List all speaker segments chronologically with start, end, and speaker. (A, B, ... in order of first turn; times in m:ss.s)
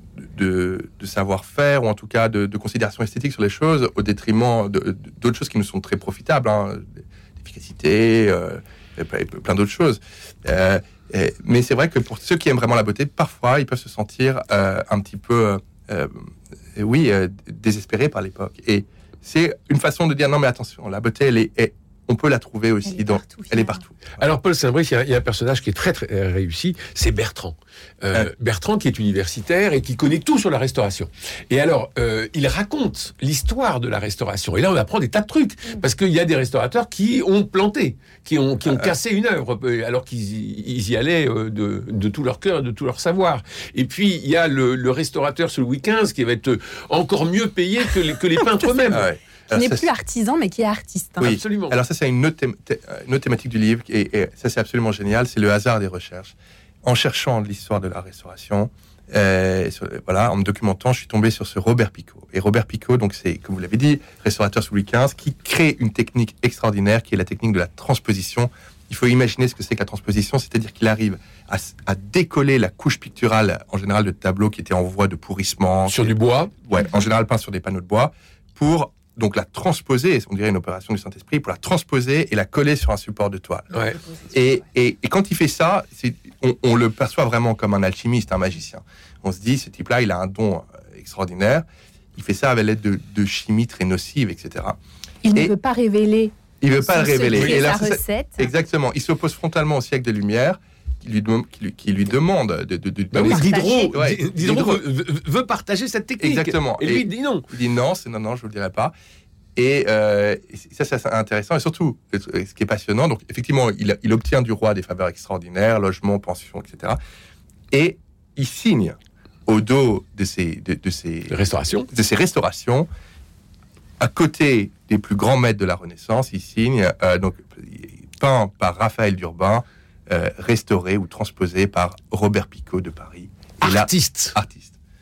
0:00.2-0:24.2 A
0:22.8-0:23.8 B
0:24.2-0:49.1 C
0:48.9-0:49.9 A
0:49.5-0:51.3 B
0:51.2-0:51.8 C
0:51.2-1:23.7 A
1:15.9-1:16.5 C
1:23.7-1:24.0 C
1:24.3-1:34.8 A
1:35.2-1:38.5 B
1:36.6-1:44.8 A
1:37.3-1:37.7 C
1:43.1-1:47.5 C
1:43.2-1:43.9 B
1:46.2-1:48.9 A
1:49.6-1:57.0 A
1:57.7-2:01.4 A
2:01.3-2:01.9 C
2:01.9-2:02.9 A
2:04.0-2:14.8 A
2:13.6-2:14.4 C